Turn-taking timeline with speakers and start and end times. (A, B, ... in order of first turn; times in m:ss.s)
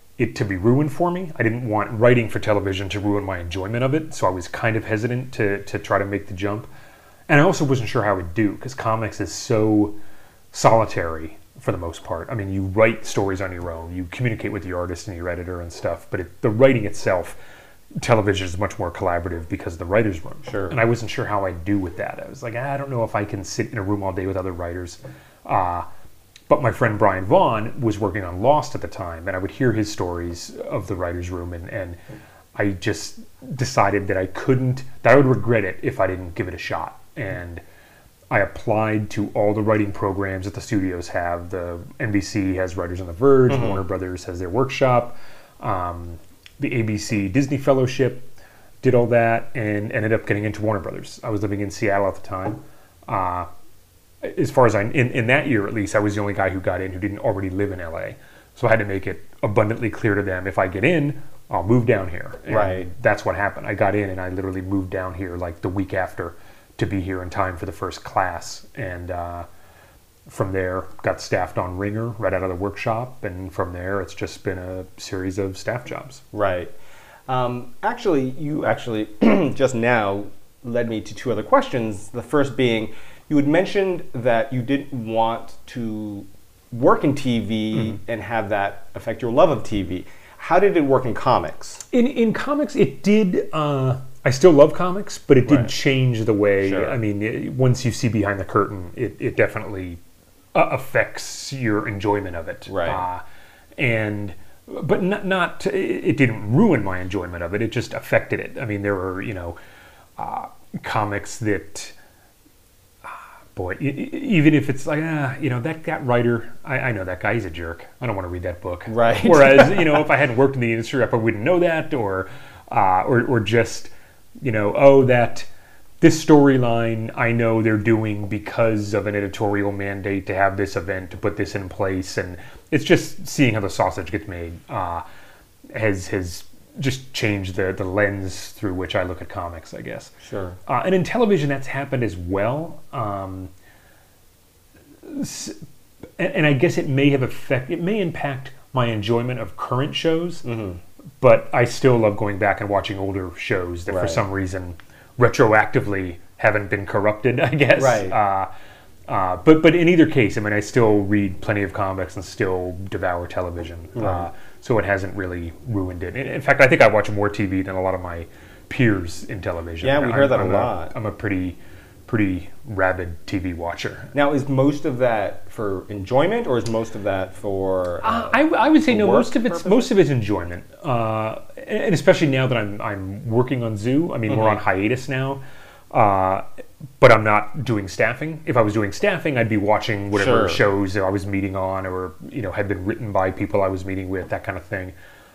0:00.2-0:06.7 A
0:07.3-0:10.0 A
0:10.5-0:17.4 A
0:18.0-0:25.8 A
0:20.4-0:20.8 B
0:26.5-0:32.0 A
0:32.5-0:37.6 A
0:38.3-0:48.3 A
0:43.5-0:43.8 B
0:48.8-0:53.5 A
0:54.2-1:09.5 A
1:02.5-1:02.9 B
1:10.3-1:16.2 A
1:16.3-1:16.7 B
1:17.3-1:31.8 B
1:31.9-1:40.0 A
1:35.4-1:35.7 B
1:36.6-1:37.0 B
1:40.5-1:43.2 A
1:42.7-1:43.0 B
1:43.8-1:49.6 A
1:50.2-1:51.9 A
1:53.0-2:05.5 A
1:58.9-2:00.0 B
2:06.0-2:15.0 A
2:15.7-2:20.1 A
2:20.2-2:20.6 B
2:20.6-2:23.5 A
2:25.0-2:25.6 A
2:26.2-2:30.4 A
2:30.4-2:30.8 B
2:31.2-2:38.5 A
2:33.9-2:34.2 B
2:37.7-2:38.2 B
2:39.1-2:54.1 A
2:44.0-2:44.3 B
2:49.8-2:50.9 B
2:54.1-2:59.9 B
2:58.0-3:06.4 A
3:04.3-3:04.6 B
3:07.0-3:14.9 A
3:10.1-3:10.6 B